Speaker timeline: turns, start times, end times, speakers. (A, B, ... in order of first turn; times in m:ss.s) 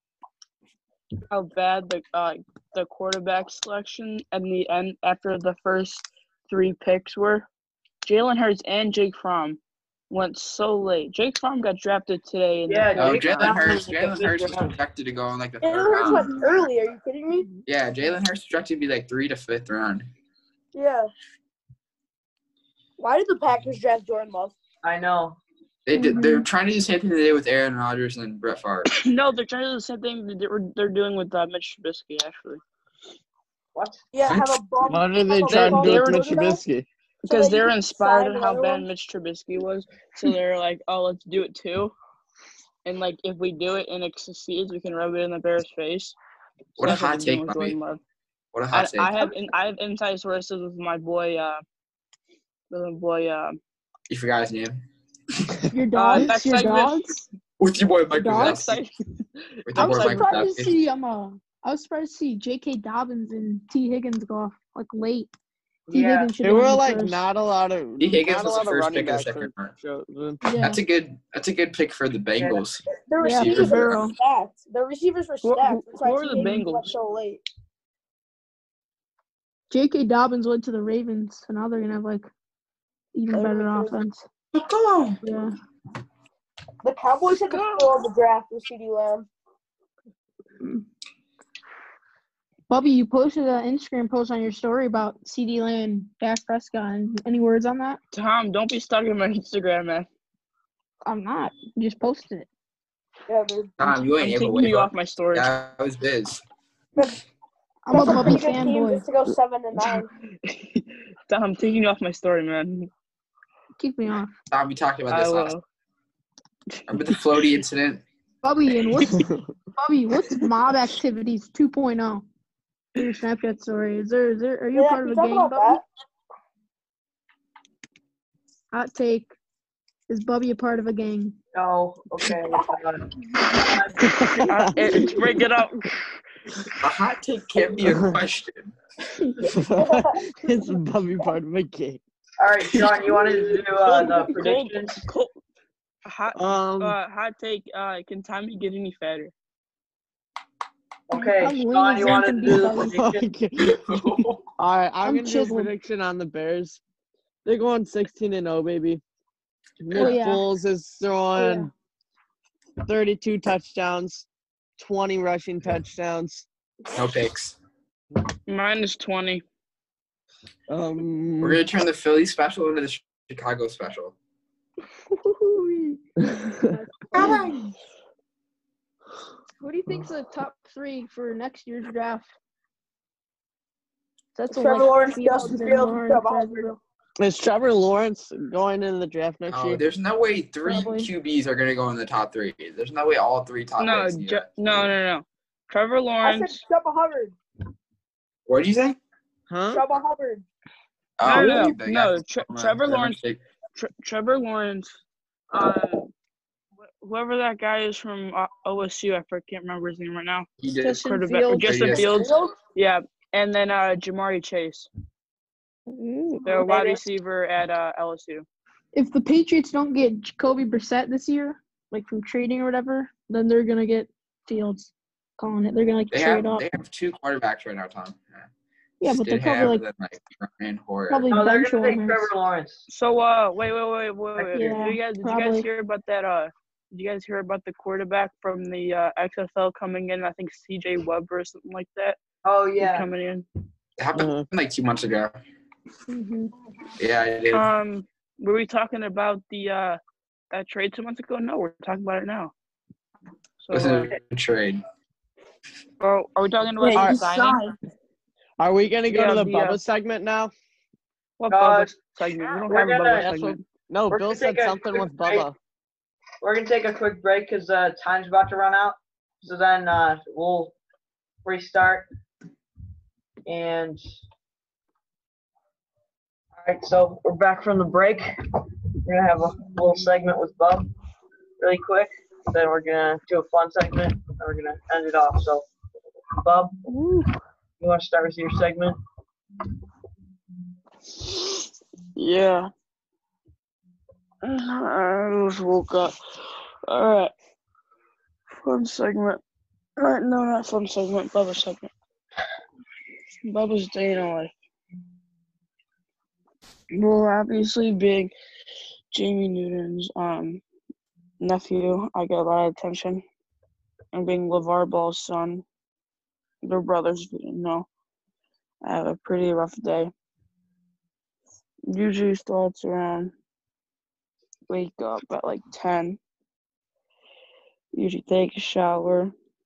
0:01.3-0:07.5 A
0:08.0-0:09.6 A
0:10.1-0:13.7 A
0:12.7-0:14.7 B
0:13.0-0:16.6 C
0:15.6-0:17.5 D
0:17.7-0:20.1 C
0:20.7-0:21.1 D
0:23.0-0:24.6 D
0:24.8-0:25.4 B
0:25.9-0:28.9 C
0:26.0-0:26.5 E
0:28.9-0:32.6 A
0:33.8-0:34.0 B
0:34.1-0:36.6 D
0:34.3-0:34.6 C
0:34.8-0:36.9 F
0:35.5-0:36.5 A
0:37.2-0:41.9 A
0:37.3-0:38.9 D
0:42.8-0:46.2 A
0:46.8-0:47.8 C
0:46.8-0:48.0 A
0:48.5-0:49.1 C
0:48.7-0:51.6 A
0:52.7-0:53.6 A
0:54.1-0:54.8 C
0:55.7-0:57.2 E
0:56.0-0:57.0 A
0:57.6-0:58.8 C
0:58.2-0:59.0 A
0:58.3-0:58.6 E
0:59.7-1:00.7 C
0:59.7-1:00.5 A
0:59.8-1:05.3 E
1:05.9-1:06.3 B
1:05.9-1:07.2 E
1:06.4-1:10.4 F
1:08.0-1:09.7 C
1:10.4-1:10.8 E
1:10.6-1:14.0 C
1:12.4-1:12.6 B
1:13.1-1:17.4 D
1:13.2-1:14.1 E
1:15.4-1:16.9 A
1:19.7-1:22.3 E
1:23.1-1:24.2 E
1:23.3-1:24.0 D
1:24.5-1:25.2 C
1:25.2-1:25.5 E
1:26.8-1:29.3 D
1:27.5-1:28.0 A
1:32.7-1:38.0 E
1:38.1-1:40.1 A
1:41.1-1:42.5 E
1:43.3-1:43.8 D
1:43.8-1:46.4 C
1:44.2-1:45.5 A
1:47.9-1:49.0 E
1:47.9-1:50.1 D
1:50.4-1:52.9 A
1:53.8-1:54.3 E
1:54.5-1:55.5 C
1:55.1-1:55.6 A
1:56.9-1:58.0 C
1:58.4-2:02.2 E
1:59.1-1:59.4 F
2:03.0-2:05.8 E
2:04.7-2:05.8 D
2:08.7-2:09.3 E
2:10.1-2:11.4 E
2:11.5-2:14.1 B
2:14.0-2:15.3 F
2:14.5-2:16.0 A
2:16.8-2:18.7 C
2:17.8-2:18.2 F
2:19.4-2:22.0 F
2:19.8-2:20.2 D
2:22.4-2:25.0 B
2:23.9-2:25.4 A
2:26.0-2:29.3 A
2:26.3-2:27.0 F
2:31.1-2:33.3 B
2:31.1-2:33.0 E
2:32.8-2:33.8 F
2:33.6-2:34.4 C
2:34.6-2:36.8 F
2:35.0-2:35.7 E
2:37.4-2:39.0 F
2:39.8-2:41.7 F
2:39.9-2:40.5 E
2:41.4-2:41.7 E
2:42.9-2:44.3 F
2:44.8-2:46.5 F
2:46.9-2:47.6 C
2:48.5-2:49.4 A
2:50.7-2:51.6 F
2:51.4-2:54.2 C
2:55.1-2:57.5 E
2:57.1-2:57.7 C
2:59.6-3:02.3 E
3:04.4-3:06.8 E
3:04.5-3:06.7 D
3:07.2-3:09.8 F
3:09.5-3:14.9 C
3:10.6-3:11.1 E
3:13.8-3:16.6 A
3:16.2-3:17.4 D
3:18.5-3:19.0 C
3:19.5-3:19.8 F
3:19.7-3:20.4 D
3:21.2-3:23.4 C
3:21.2-3:23.2 A
3:23.8-3:24.9 A
3:25.5-3:26.1 A
3:27.0-3:34.9 A
3:30.6-3:31.1 C
3:30.9-3:32.5 D
3:31.6-3:32.3 C
3:35.9-3:36.7 E
3:36.4-3:38.5 A
3:36.6-3:37.0 D
3:38.9-3:46.7 E
3:46.1-3:48.5 C
3:49.0-3:49.8 E
3:49.0-3:51.3 C
3:51.1-3:52.3 E
3:51.3-3:52.8 B
3:52.9-4:02.2 A
3:54.4-3:54.8 B
3:54.5-3:55.6 E
4:02.4-4:03.1 B
4:02.8-4:03.4 A
4:04.0-4:05.4 C
4:04.2-4:04.5 F
4:06.1-4:06.5 E
4:07.0-4:07.7 C
4:07.5-4:10.0 A
4:10.5-4:12.5 A
4:13.6-4:14.2 A
4:13.7-4:14.8 C
4:16.0-4:17.7 A
4:16.8-4:17.7 D
4:16.9-4:17.4 F
4:18.6-4:20.5 F
4:19.1-4:19.8 A
4:21.4-4:23.6 A
4:21.5-4:22.0 B
4:22.7-4:23.3 B
4:23.2-4:25.6 F
4:24.1-4:25.5 B
4:26.4-4:30.8 B
4:31.4-4:32.1 B
4:33.5-4:34.0 B
4:36.6-4:38.3 B
4:39.1-4:40.9 B
4:41.6-4:45.7 B
4:46.4-4:46.8 B
4:47.8-4:49.0 B
4:51.2-4:52.7 A
4:54.4-4:56.2 A
4:56.9-4:57.3 A
4:58.6-4:59.4 A
5:00.0-5:01.9 A
5:03.4-5:04.5 A
5:06.9-5:08.3 A
5:09.1-5:10.6 A
5:11.4-5:13.2 A
5:14.1-5:15.6 A
5:16.6-5:17.9 A
5:18.8-5:20.1 A
5:21.9-5:23.3 A
5:24.7-5:26.2 A
5:27.9-5:29.3 A